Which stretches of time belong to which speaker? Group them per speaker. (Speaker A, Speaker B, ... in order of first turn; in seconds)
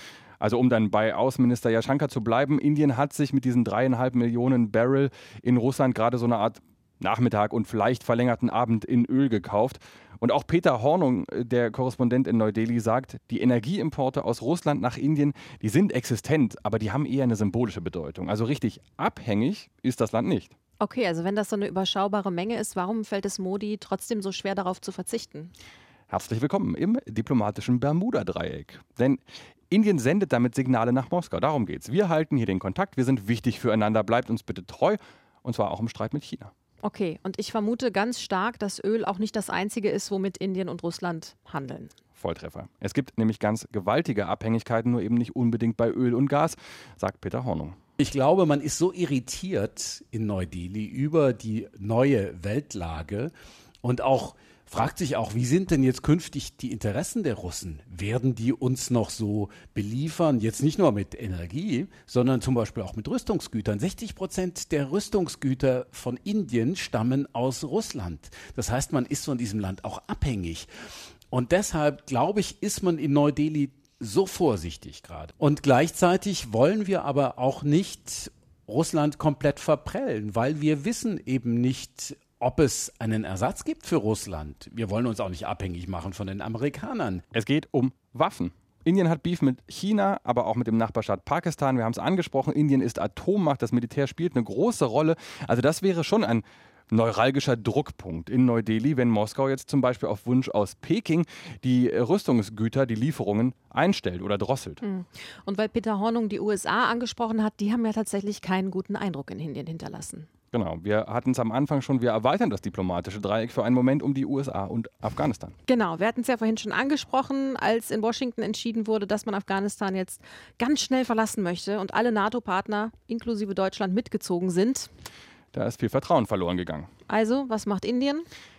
Speaker A: 0.4-20.5, 26.1-36.5, 42.2-47.8, 87.3-104.8, 110.5-115.5, 125.5-126.9
Speaker B: 20.8-25.5, 36.8-41.9, 104.8-110.3, 115.7-124.9, 127.1-128.3
Speaker C: 48.0-53.3, 53.8-70.7, 71.3-87.2